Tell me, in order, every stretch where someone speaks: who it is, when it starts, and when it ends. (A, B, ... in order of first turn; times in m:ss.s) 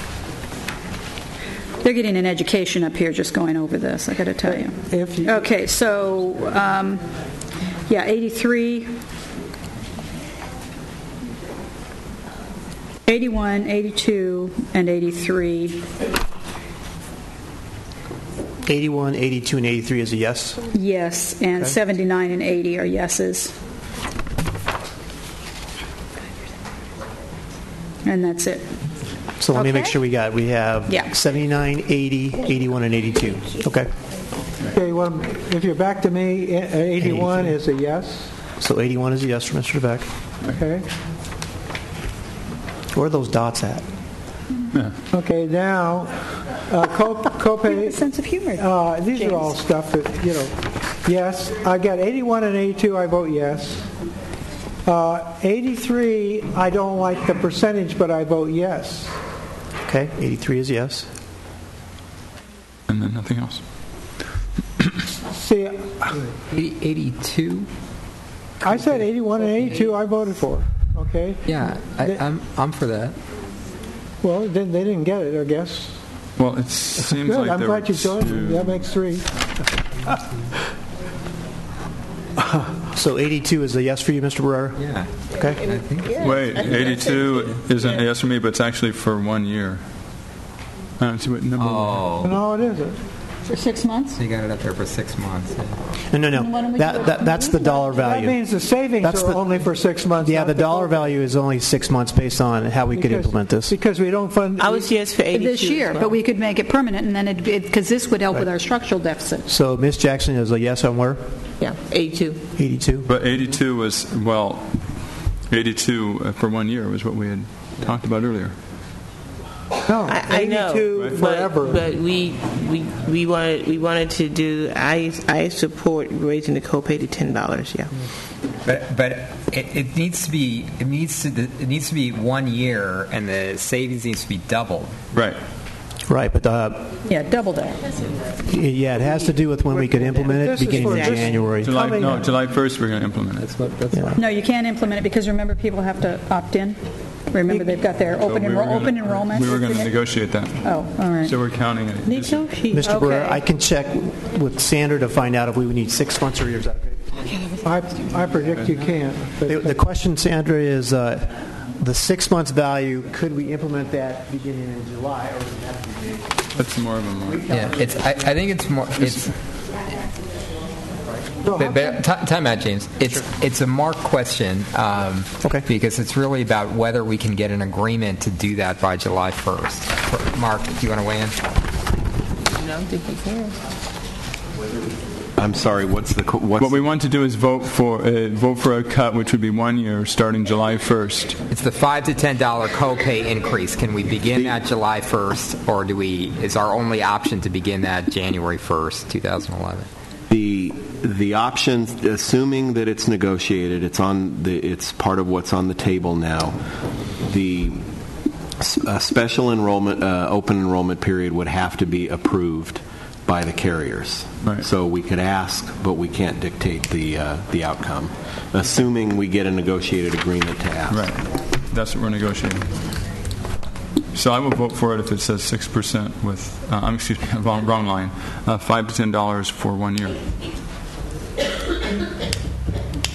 0:01.8-0:07.0 A
0:04.5-0:05.5 B
0:07.9-0:08.9 A
0:13.1-0:15.8 A
0:18.6-0:20.6 C
0:20.7-0:23.6 A
0:28.0-0:28.7 A
0:29.4-0:33.9 C
0:29.5-0:30.0 A
0:34.7-0:38.3 B
0:37.0-0:37.5 C
0:38.6-0:40.1 C
0:40.5-0:40.8 B
0:42.9-0:43.8 C
0:45.1-0:46.1 B
0:46.7-0:48.0 B
0:47.7-0:49.6 A
0:48.6-0:50.5 B
0:51.0-0:53.9 B
0:54.8-0:59.1 B
0:59.8-1:01.1 C
1:02.9-1:03.6 D
1:05.2-1:06.1 B
1:06.5-1:07.7 E
1:08.6-1:11.5 B
1:08.7-1:09.9 E
1:11.5-1:13.2 E
1:14.2-1:16.0 B
1:16.4-1:18.8 D
1:17.0-1:19.3 B
1:22.9-1:24.8 C
1:24.8-1:27.6 E
1:26.2-1:29.8 D
1:26.2-1:27.0 F
1:31.0-1:32.0 D
1:31.6-1:32.4 E
1:32.2-1:33.0 B
1:33.5-1:34.2 A
1:34.1-1:35.8 E
1:36.1-1:38.4 C
1:36.3-1:38.1 A
1:37.9-1:41.1 B
1:39.0-1:39.5 C
1:40.2-1:43.8 C
1:42.9-1:45.0 B
1:44.6-1:46.1 F
1:45.3-1:49.5 A
1:49.5-1:51.2 C
1:51.6-1:52.4 F
1:52.6-1:53.1 C
1:53.1-1:54.7 D
1:55.5-1:58.5 D
1:59.8-2:01.8 B
2:00.0-2:07.9 F
2:08.6-2:15.0 E
2:15.1-2:15.4 D
2:16.1-2:16.9 C
2:17.1-2:17.8 A
2:18.4-2:22.3 C
2:20.0-2:22.2 B
2:20.7-2:21.3 F
2:21.6-2:23.5 D
2:23.4-2:24.2 E
2:23.9-2:24.2 C
2:24.2-2:26.8 A
2:27.3-2:30.0 A
2:27.5-2:27.9 B
2:28.2-2:32.5 D
2:30.6-2:31.4 A
2:32.1-2:32.9 F
2:32.7-2:37.0 C
2:32.8-2:33.4 A
2:37.2-2:37.8 F
2:37.6-2:39.8 B
2:39.5-2:46.1 C
2:46.6-2:47.5 D
2:47.5-2:49.3 E
2:51.4-2:51.9 B
2:51.5-3:01.4 E
3:02.6-3:03.6 F
3:05.4-3:06.9 G
3:06.6-3:11.4 D
3:11.5-3:19.9 E
3:14.3-3:14.6 G
3:20.3-3:26.6 G
3:27.2-3:27.8 G
3:28.6-3:41.1 G
3:40.9-3:42.7 D
3:44.1-3:50.2 D